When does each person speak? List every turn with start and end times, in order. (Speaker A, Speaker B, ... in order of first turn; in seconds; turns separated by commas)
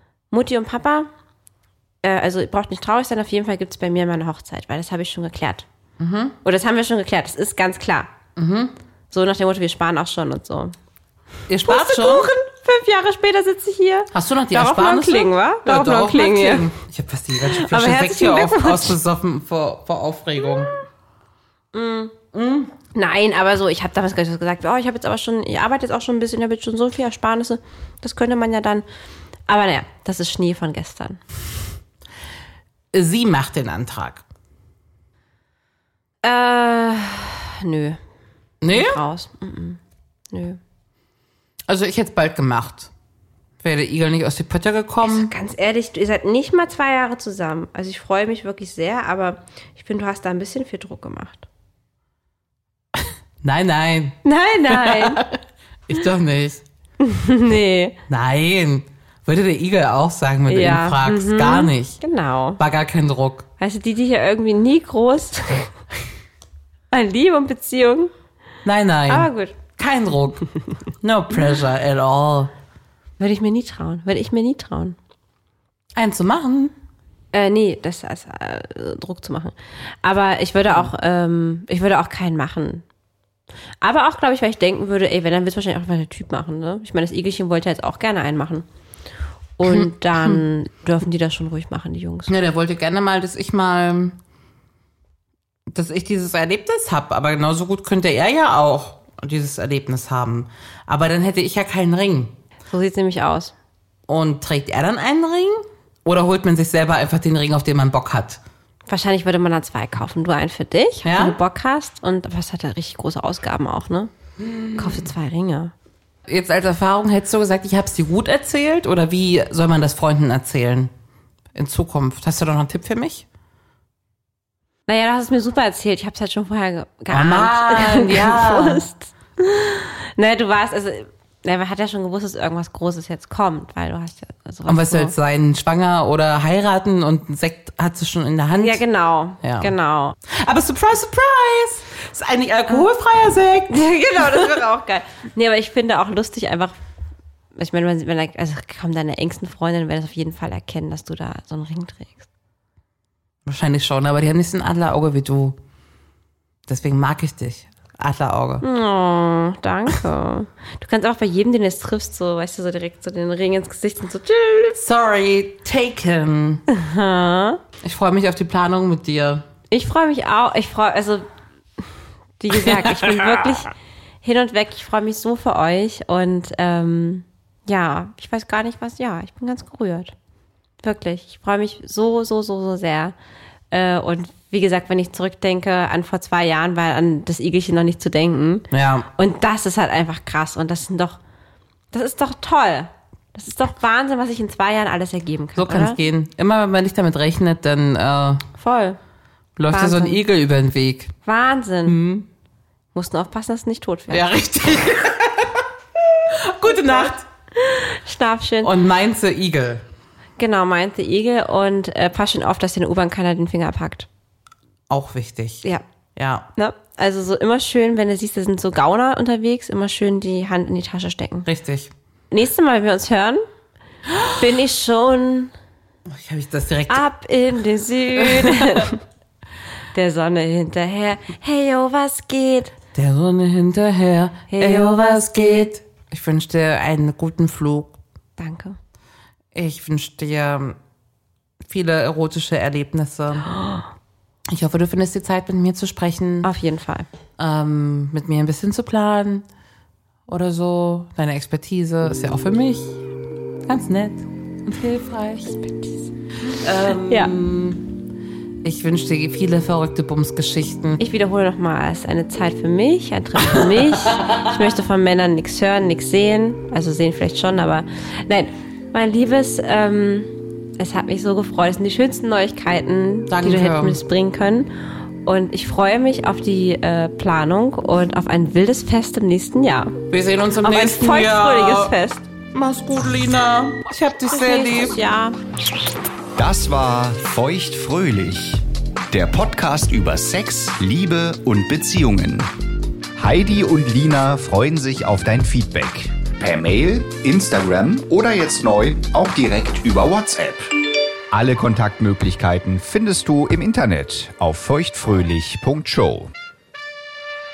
Speaker A: 0.3-1.1, Speaker A: 2.0-5.7, Speaker B: 6.0-6.4, Speaker A: 6.4-8.1, Speaker B: 8.4-8.7, Speaker A: 9.1-10.8, Speaker B: 11.5-12.3, Speaker A: 11.7-16.7, Speaker B: 14.1-20.7, Speaker A: 17.4-19.0, Speaker A: 21.7-22.1, Speaker B: 22.3-22.7, Speaker A: 22.9-28.9, Speaker A: 29.5-31.2, Speaker B: 32.9-34.2, Speaker A: 36.2-38.0, Speaker B: 38.6-39.0, Speaker A: 38.7-39.8, Speaker A: 40.3-40.6, Speaker B: 41.7-42.9, Speaker B: 43.6-45.3, Speaker A: 45.0-51.5, Speaker B: 53.0-56.6, Speaker A: 54.2-55.3, Speaker A: 57.0-58.0, Speaker B: 58.1-62.0, Speaker A: 60.5-62.6, Speaker B: 62.6-63.5, Speaker A: 63.6-65.7, Speaker A: 66.9-68.1, Speaker B: 68.7-70.4, Speaker A: 69.1-69.6, Speaker B: 71.0-72.5, Speaker A: 73.2-75.0, Speaker B: 76.0-76.7, Speaker A: 77.3-82.8, Speaker A: 83.8-88.7, Speaker A: 89.6-92.3, Speaker B: 89.7-90.4, Speaker B: 92.3-94.2, Speaker B: 95.7-102.4, Speaker A: 102.7-103.5, Speaker B: 104.1-108.4, Speaker A: 108.9-114.1, Speaker B: 111.0-111.4, Speaker B: 114.4-115.1, Speaker A: 114.8-115.7, Speaker B: 116.3-120.9, Speaker B: 121.5-123.3, Speaker A: 124.9-135.1, Speaker B: 127.1-128.9, Speaker B: 134.7-138.8, Speaker A: 138.5-140.2, Speaker B: 139.4-139.7, Speaker B: 140.3-144.6, Speaker A: 143.7-146.8, Speaker A: 147.6-152.3, Speaker B: 153.5-155.6, Speaker B: 156.7-158.6, Speaker A: 158.6-164.8, Speaker B: 164.8-166.6, Speaker A: 166.7-167.6, Speaker B: 167.8-169.4, Speaker A: 169.7-171.3, Speaker A: 172.4-173.7, Speaker B: 172.5-173.4, Speaker A: 174.2-180.1, Speaker A: 180.8-183.2, Speaker A: 183.7-191.2, Speaker B: 188.7-189.1, Speaker A: 191.9-196.0, Speaker B: 195.6-198.4, Speaker A: 198.6-199.0, Speaker B: 199.6-201.1, Speaker A: 199.7-200.2, Speaker A: 201.2-202.0, Speaker B: 201.9-202.3, Speaker A: 202.9-204.3, Speaker B: 204.1-205.7, Speaker B: 206.2-207.2, Speaker A: 206.9-208.7, Speaker B: 208.6-209.8, Speaker A: 210.4-214.1, Speaker B: 214.9-215.7, Speaker B: 216.2-216.5, Speaker A: 216.6-221.5, Speaker B: 221.5-221.9, Speaker A: 222.3-223.4, Speaker A: 224.2-225.5, Speaker B: 226.1-227.1, Speaker A: 226.9-229.0, Speaker B: 228.2-228.9, Speaker A: 229.9-232.8, Speaker B: 232.9-238.0, Speaker A: 234.5-235.7, Speaker A: 238.4-238.8, Speaker B: 239.5-240.8, Speaker B: 241.6-243.6, Speaker A: 243.5-243.8, Speaker B: 244.5-246.5, Speaker A: 246.4-247.1, Speaker B: 247.4-249.5, Speaker B: 250.3-253.0, Speaker B: 253.7-255.6, Speaker A: 255.6-256.1, Speaker B: 256.5-257.9, Speaker A: 257.1-257.3, Speaker B: 258.6-261.0, Speaker A: 261.0-274.7, Speaker B: 273.3-274.0, Speaker A: 275.2-280.0, Speaker B: 280.1-282.0, Speaker A: 280.6-282.3, Speaker B: 282.5-285.0, Speaker A: 284.3-285.4, Speaker C: 286.4-292.5, Speaker C: 293.2-300.7, Speaker C: 301.3-306.3